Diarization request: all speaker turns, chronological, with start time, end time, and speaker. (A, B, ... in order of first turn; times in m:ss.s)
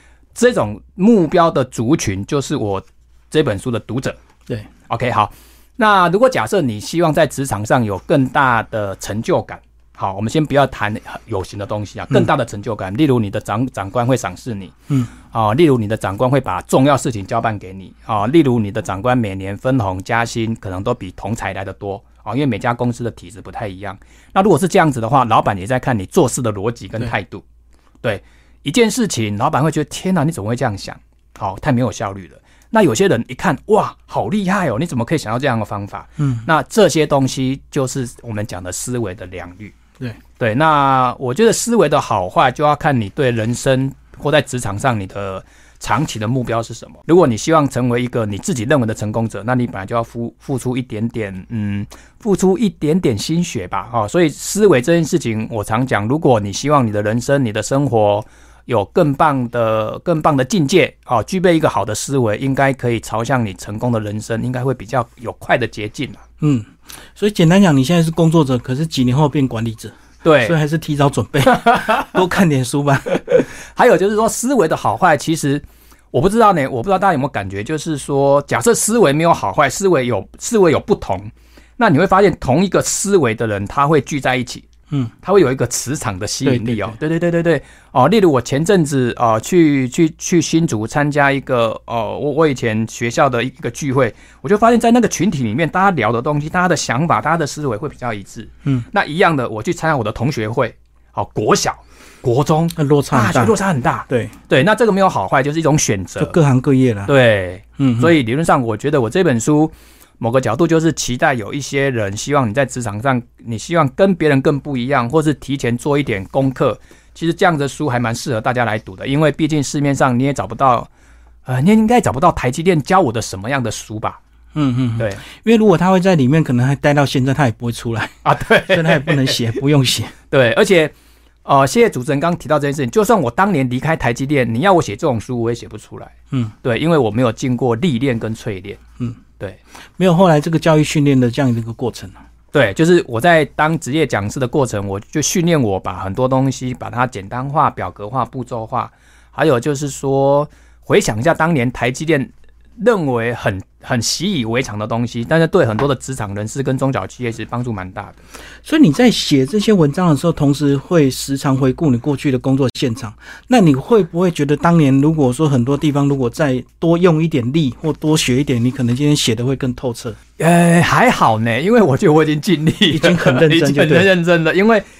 0:00.3-0:04.2 A
0:04.9-0:27.4 A
0:28.0-0:39.7 A
0:36.2-0:36.5 B
0:40.4-1:06.2 A
1:06.4-1:13.2 B
1:10.2-1:10.6 A
1:11.5-1:12.2 A
1:13.1-1:24.7 A
1:25.2-1:46.4 A
1:26.4-1:27.0 B
1:42.8-1:43.5 B
1:44.1-1:44.3 B
1:46.2-1:47.1 B
1:47.1-2:00.9 A
1:47.8-1:48.1 B
2:01.4-2:04.2 A
2:04.5-2:10.1 B
2:08.2-2:09.3 A
2:10.3-2:10.9 A
2:11.4-2:18.8 A
2:20.0-2:22.2 B
2:22.5-2:38.2 A
2:38.6-2:50.2 B
2:50.4-2:54.8 A
2:52.9-2:54.1 B